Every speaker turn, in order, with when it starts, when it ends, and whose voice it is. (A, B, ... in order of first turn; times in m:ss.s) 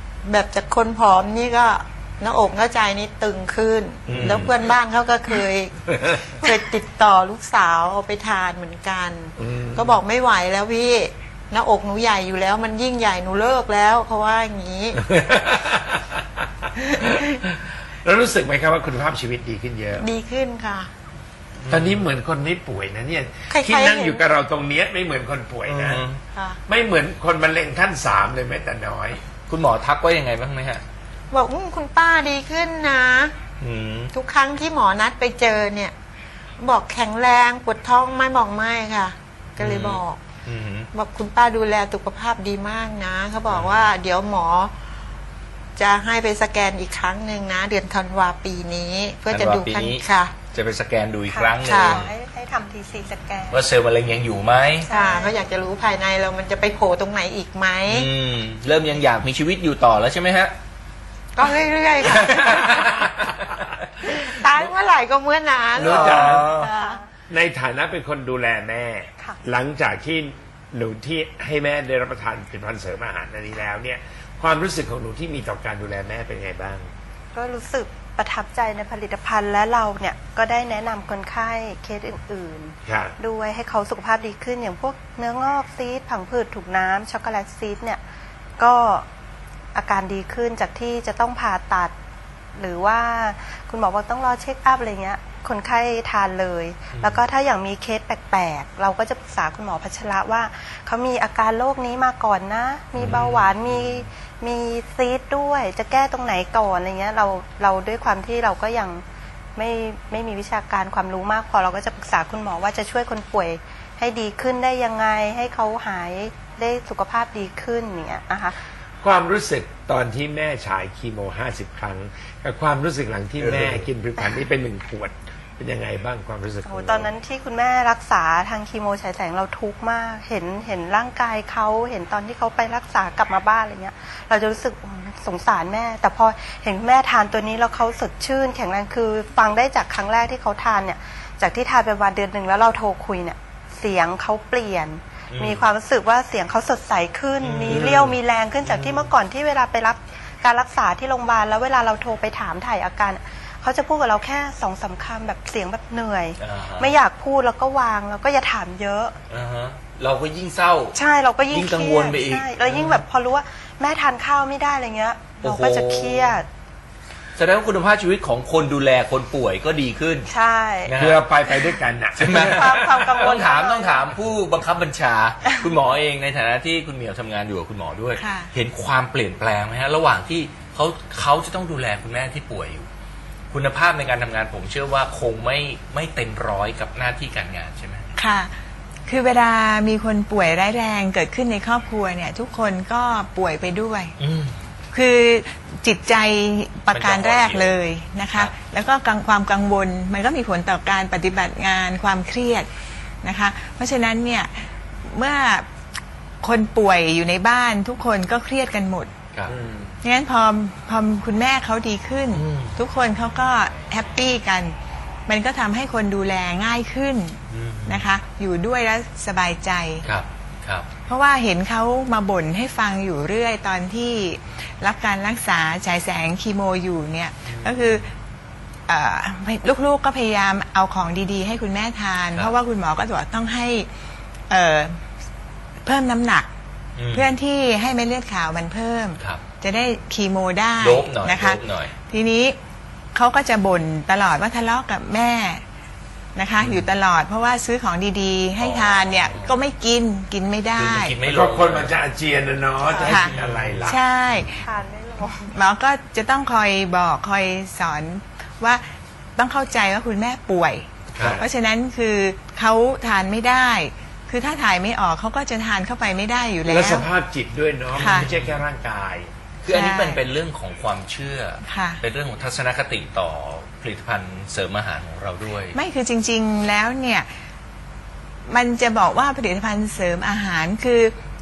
0:00.2-0:15.0 A
0:04.1-0:04.6 B
0:04.1-0:04.4 C
0:09.4-0:10.0 B
0:15.0-0:20.1 B
0:16.9-0:17.4 A
0:20.0-0:20.9 A
0:21.6-0:22.0 C
0:21.7-0:26.0 B
0:23.5-0:24.2 A
0:25.6-0:26.2 C
0:26.7-0:29.2 B
0:29.5-0:30.8 C
0:31.3-0:33.3 A
0:33.6-0:34.1 C
0:34.1-0:35.9 A
0:36.6-0:40.2 A
0:39.6-0:40.9 C
0:40.9-0:44.7 A
0:43.5-0:43.9 C
0:45.8-0:50.3 A
0:49.3-0:52.1 C
0:51.3-0:53.6 D
0:51.6-0:52.0 A
0:53.5-0:54.9 C
0:54.8-0:55.4 D
0:54.9-0:58.1 A
0:57.9-1:00.5 C
1:01.3-1:02.6 A
1:02.3-1:03.6 B
1:02.3-1:03.5 C
1:04.0-1:07.0 A
1:05.7-1:06.5 B
1:05.8-1:06.7 C
1:06.7-1:07.0 D
1:07.3-1:16.9 B
1:17.3-1:28.0 D
1:22.8-1:23.2 B
1:28.6-1:29.1 D
1:29.7-1:31.9 D
1:32.6-1:49.0 D
1:36.9-1:37.2 C
1:43.0-1:44.0 C
1:49.6-1:58.6 D
1:59.0-2:07.1 B
2:06.6-2:39.2 D
2:25.3-2:25.6 C
2:27.4-2:29.1 C
2:27.7-2:28.1 B
2:36.4-2:37.0 C
2:39.3-2:41.0 C
2:41.0-2:46.5 D
2:41.5-2:43.0 C
2:45.4-2:46.4 C
2:47.4-2:50.3 C
2:50.3-2:51.0 D
2:50.8-2:51.2 C
2:51.0-2:53.3 B
2:52.2-3:02.9 C
2:52.3-2:54.1 D
2:58.2-2:58.5 E
3:03.5-3:08.1 C
3:08.2-3:08.5 E
3:09.1-3:14.1 E
3:14.2-3:14.6 C
3:14.9-3:22.7 E
3:16.9-3:17.8 C
3:23.2-3:25.7 E
3:26.4-3:29.1 E
3:29.5-3:29.9 B
3:30.0-3:34.7 E
3:32.3-3:32.8 C
3:35.3-3:40.0 E
3:37.5-3:38.1 C
3:40.0-3:40.9 C
3:41.1-3:48.1 E
3:47.5-3:48.0 C
3:48.9-3:53.9 E
3:54.5-3:55.0 E
3:55.8-3:56.5 E
3:57.0-3:57.4 C
3:57.1-4:02.6 E
4:00.8-4:01.9 C
4:03.1-4:05.6 E
4:06.4-4:11.1 E
4:06.6-4:06.8 C
4:08.6-4:09.6 C
4:10.8-4:12.0 C
4:11.2-4:14.0 B
4:12.9-4:13.2 D
4:13.0-4:13.9 C
4:13.0-4:13.3 E
4:13.8-4:14.6 E
4:14.4-4:15.5 D
4:15.5-4:27.1 E
4:21.1-4:21.4 B
4:21.2-4:21.4 C
4:26.6-4:29.3 B
4:28.0-4:28.6 C
4:28.0-4:28.3 E
4:29.6-4:35.8 C
4:29.7-4:30.2 E
4:31.6-4:32.0 E
4:35.7-4:37.3 E
4:38.5-4:41.1 E